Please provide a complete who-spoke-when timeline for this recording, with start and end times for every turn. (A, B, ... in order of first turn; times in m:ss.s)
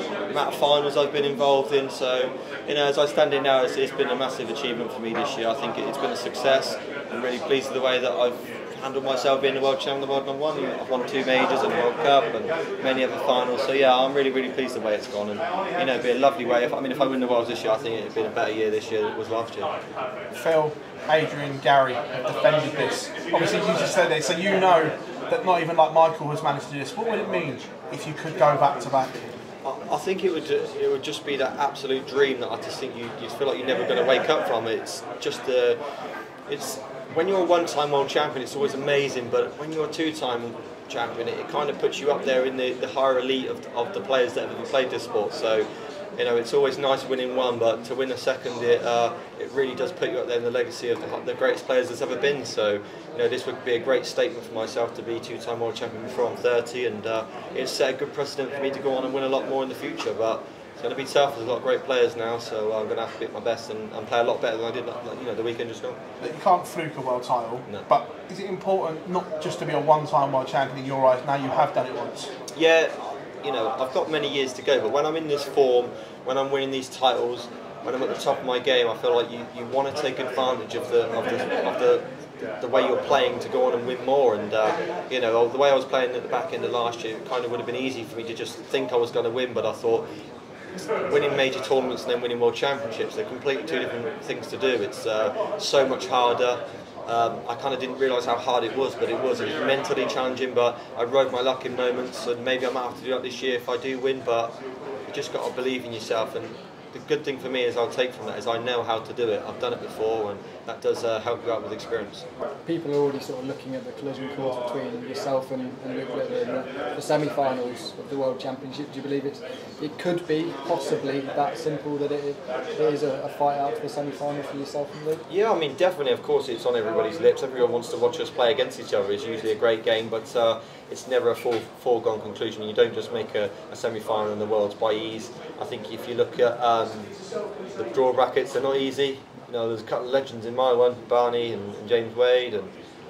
0:00.3-0:19.7 A
0:20.3-0:29.2 B
0:29.6-0:35.8 A
0:36.5-0:45.7 A
0:46.2-1:06.0 A
1:06.2-1:12.3 B
1:12.6-1:22.0 A
1:22.6-1:30.1 A
1:31.0-1:44.6 A
1:45.1-1:52.2 A
1:52.6-2:05.2 C
2:05.3-2:17.1 A
2:17.8-2:22.7 A